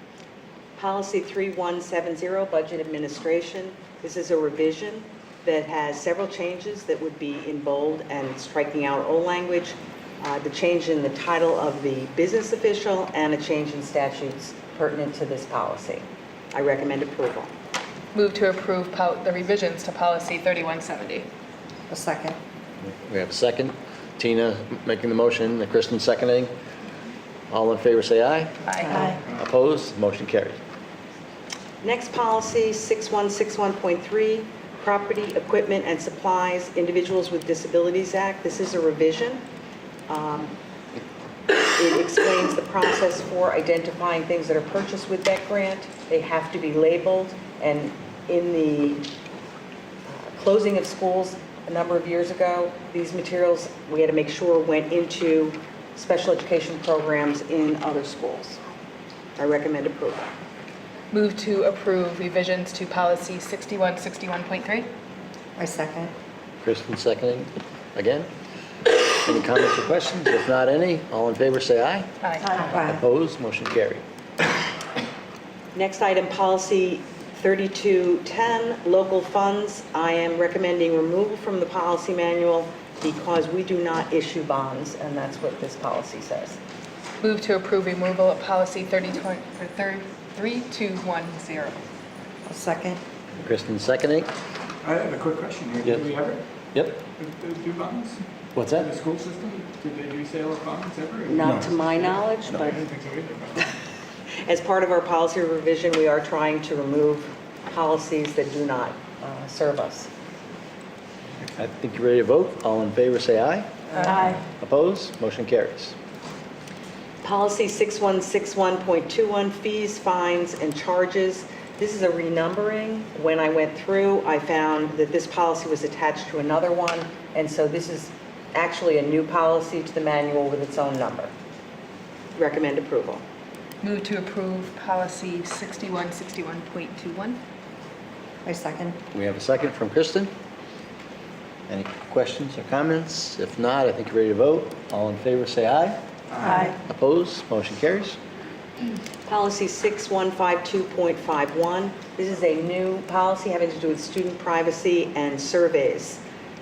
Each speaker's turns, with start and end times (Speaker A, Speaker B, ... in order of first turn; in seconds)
Speaker A: 0.8-17.5, 31.8-39.4, 40.1-40.5, 41.6-49.1, 50.1-58.6, 59.4-60.2, 75.8-86.6, 101.3-102.8, 104.4-110.1, 117.2-131.3, 132.4-133.2, 149.3-156.2
Speaker B: 18.1-21.3, 28.7-29.2, 61.1-64.9, 72.2-72.5, 87.2-91.9, 133.8-137.4
Speaker C: 21.9-22.4, 28.9-29.2, 65.6-66.1, 72.4-73.0, 92.5-93.0, 138.4-139.0
Speaker D: 23.0-26.5, 27.5-28.5, 29.3-30.6, 66.6-68.3, 69.2-72.1, 72.7-74.0, 93.4-94.3, 96.7-97.0, 98.5-98.9, 111.6-113.7, 114.4-116.0, 139.1-140.3, 141.7-146.0, 146.5-148.2
Speaker E: 94.8-96.4, 97.2-98.2, 98.8-103.7